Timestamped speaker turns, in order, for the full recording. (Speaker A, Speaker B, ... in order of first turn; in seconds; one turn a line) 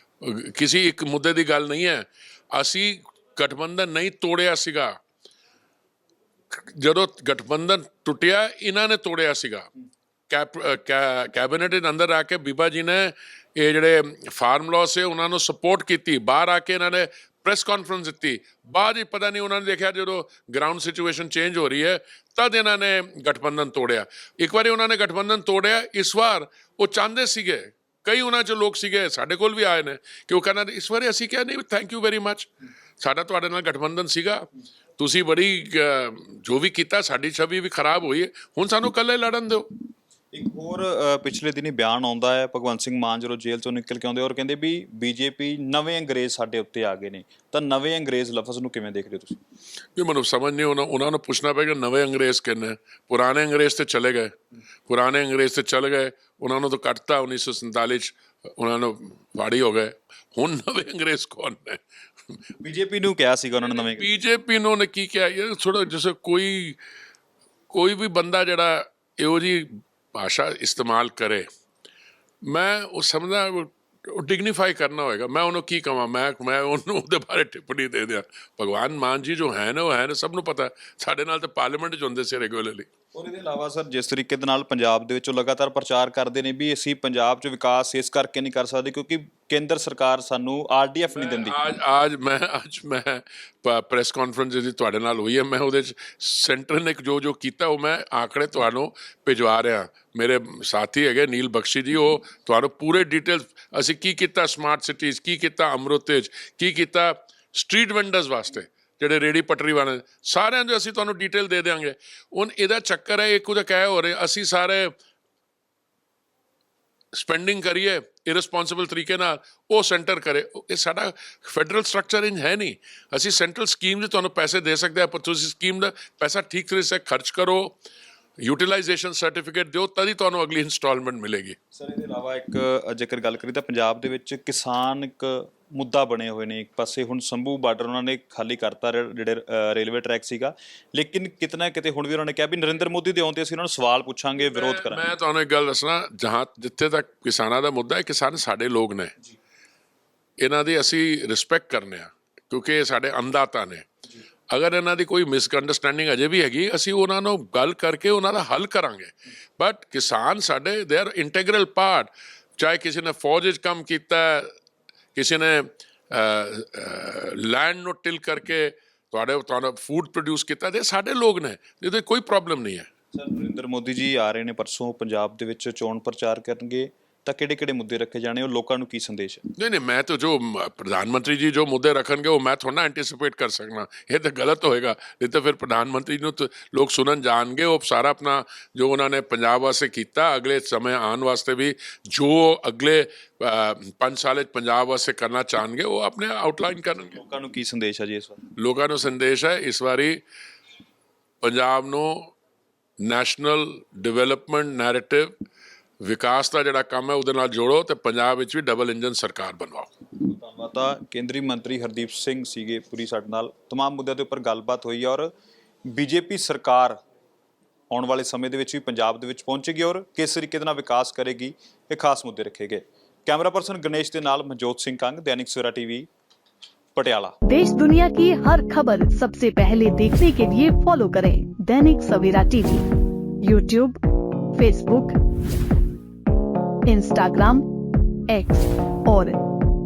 Speaker A: 0.2-4.9
Speaker A: 6.5-9.7
Speaker A: 10.3-32.5
Speaker A: 33.0-34.5
Speaker A: 35.0-39.7
Speaker B: 40.3-49.4
Speaker A: 50.0-54.4
Speaker A: 54.9-61.8
Speaker B: 62.6-64.1
Speaker A: 63.6-66.8
Speaker A: 67.7-71.5
Speaker A: 72.4-82.9
Speaker B: 83.1-91.6
Speaker A: 91.1-114.9
Speaker A: 117.1-127.8
Speaker A: 128.4-131.6
Speaker B: 131.7-145.1
Speaker A: 144.4-149.2
Speaker A: 150.4-153.9
Speaker A: 154.5-164.5
Speaker A: 165.2-172.9
Speaker B: 173.1-179.4
Speaker A: 179.6-197.2
Speaker B: 197.0-198.4
Speaker A: 198.6-200.2
Speaker A: 201.4-202.3
Speaker A: 203.0-205.3
Speaker A: 206.0-209.9
Speaker B: 210.2-215.3
Speaker B: 215.9-217.0
Speaker B: 217.9-226.1
Speaker B: 226.9-227.4
Speaker C: 227.5-232.9
Speaker C: 233.4-234.0
Speaker C: 234.5-235.2
Speaker C: 236.8-237.7
Speaker C: 238.3-239.4